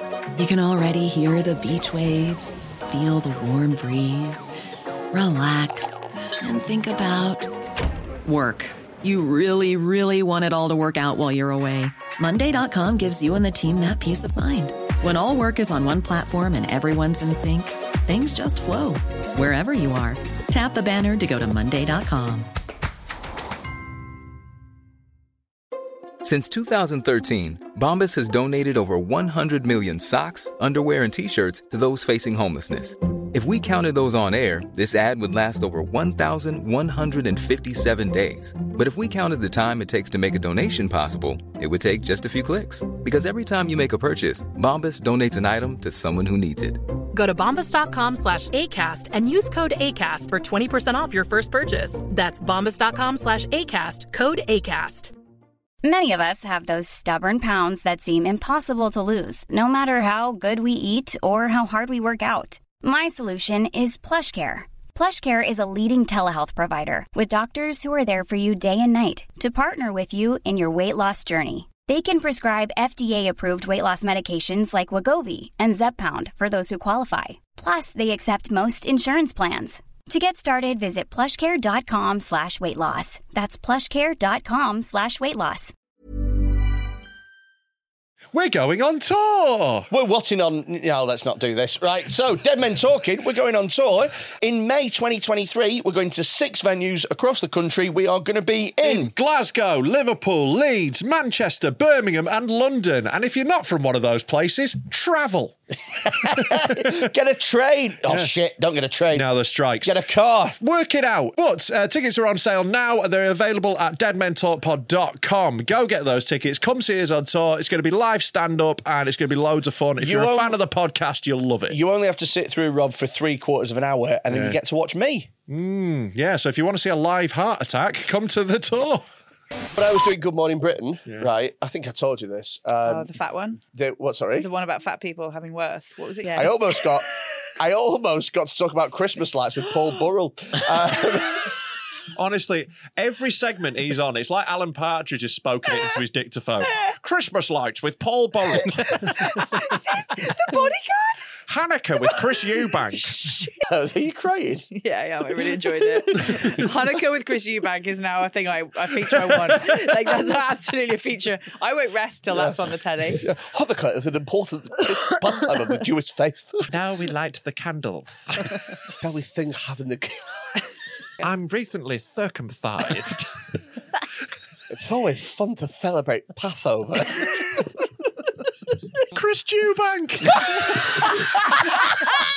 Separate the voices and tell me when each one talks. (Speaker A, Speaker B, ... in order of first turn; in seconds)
Speaker A: 0.4-4.5, 5.1-7.5, 8.2-22.5
Speaker B: 26.2-46.8
Speaker C: 47.1-55.1
Speaker D: 55.8-85.7
Speaker E: 88.3-89.9, 98.8-105.6, 106.1-107.1, 109.1-110.0, 110.6-121.8, 124.3-124.6, 125.5-129.1, 142.1-149.4, 151.5-153.3, 159.2-159.7, 166.7-168.6, 171.2-173.3, 179.1-180.9
Speaker F: 89.9-99.1, 106.0-109.3, 109.8-110.6, 120.0-120.6, 121.7-125.3, 129.7-133.1, 133.7-134.5, 136.3-137.1, 137.6-141.5, 153.5-154.7, 155.7-156.5, 162.3-162.6, 163.1-166.7, 169.0-170.3, 174.7-177.6
Speaker G: 132.8-133.6, 134.3-136.9, 148.8-151.2, 154.7-163.2